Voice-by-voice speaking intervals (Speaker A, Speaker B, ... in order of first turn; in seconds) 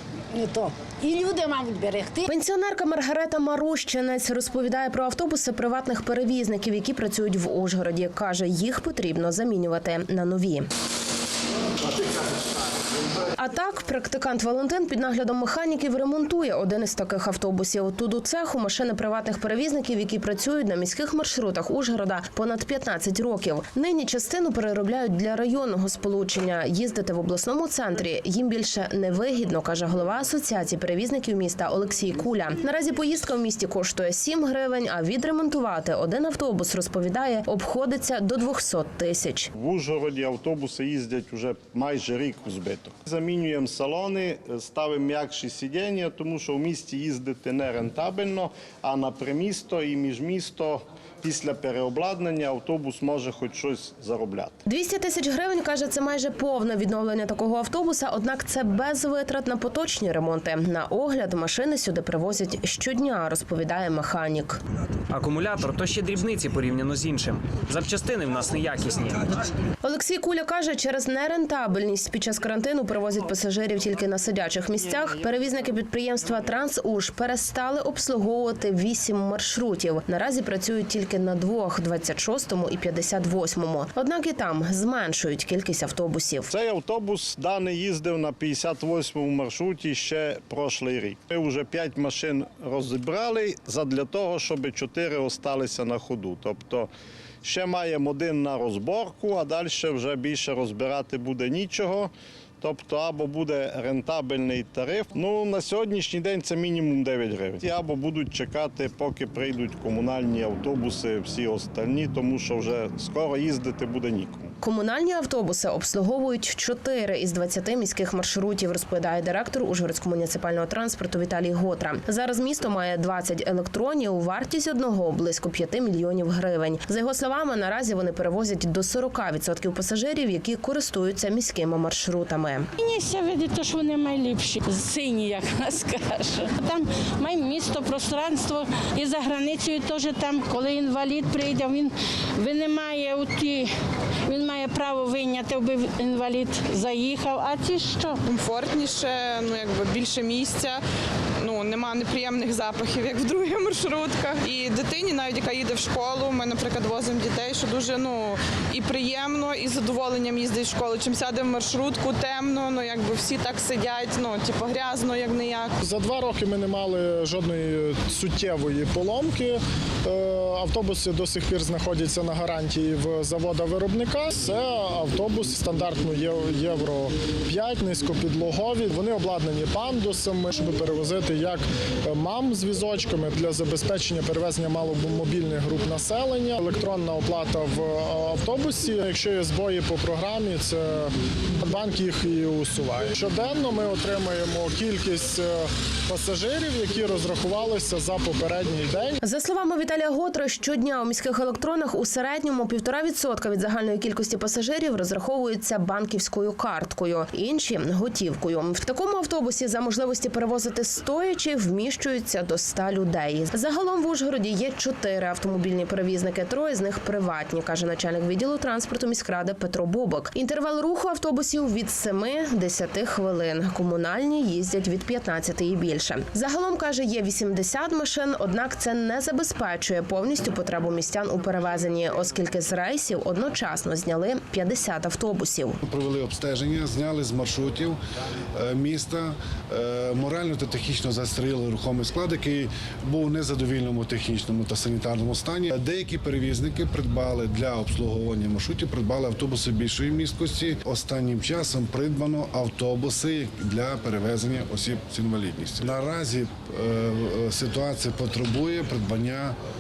Speaker A: 0.3-2.3
Speaker B: 2.3-10.7, 13.4-39.5, 54.7-64.6, 69.8-86.5, 114.6-132.7, 199.2-235.8
Speaker C: 39.5-54.6, 86.5-96.9, 97.4-114.5
Speaker D: 65.1-69.3
Speaker E: 132.8-143.7, 144.3-148.2
Speaker F: 148.3-150.8, 151.4-165.7
Speaker G: 165.8-181.6, 182.1-191.1, 191.7-199.2
Speaker H: 235.8-238.0, 238.6-259.6